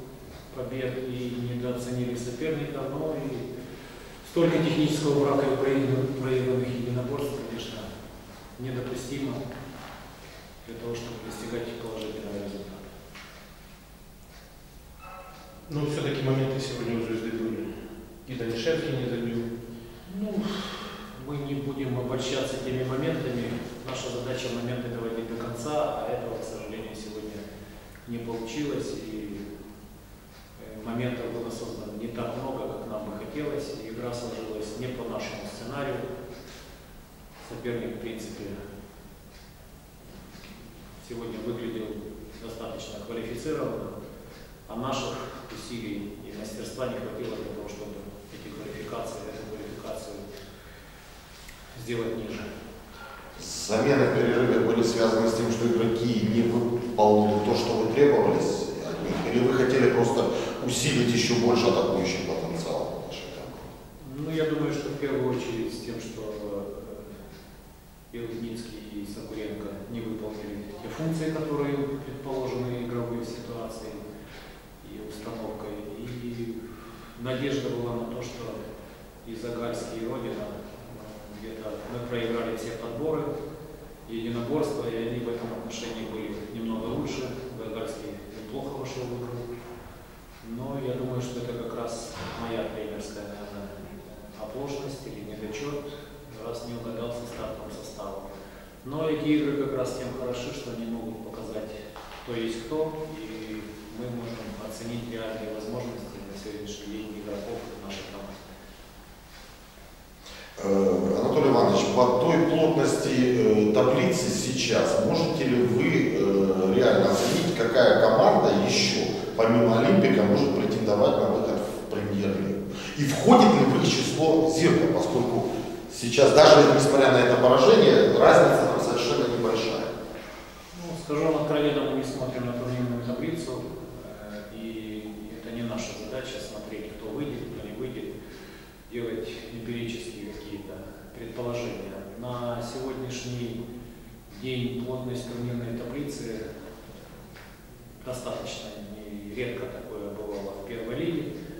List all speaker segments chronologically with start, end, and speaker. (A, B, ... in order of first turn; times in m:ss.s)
0:00.5-0:03.5 A
0:04.2-0:07.9 A
0:08.6-0:09.4 A
0:10.6-0:12.9 A
0:15.7-0:19.5 B
0:20.0-0:27.4 A
0:28.0-0:29.4 A
0:30.6-0:36.0 A
0:37.4-0:38.6 A
0:41.0-0:43.9 A
0:44.7-0:50.2 A
0:51.7-0:52.5 A
0:53.4-1:03.7 C
1:04.0-1:07.2 A
1:08.1-1:14.0 A
1:14.8-1:18.6 A
1:19.2-1:23.3 A
1:24.0-1:29.5 A
1:30.4-1:38.3 A
1:38.8-1:48.4 A
1:50.6-2:09.9 C
2:10.7-2:18.1 A
2:18.9-2:23.6 A
2:24.3-2:26.4 A
2:28.0-2:31.3 A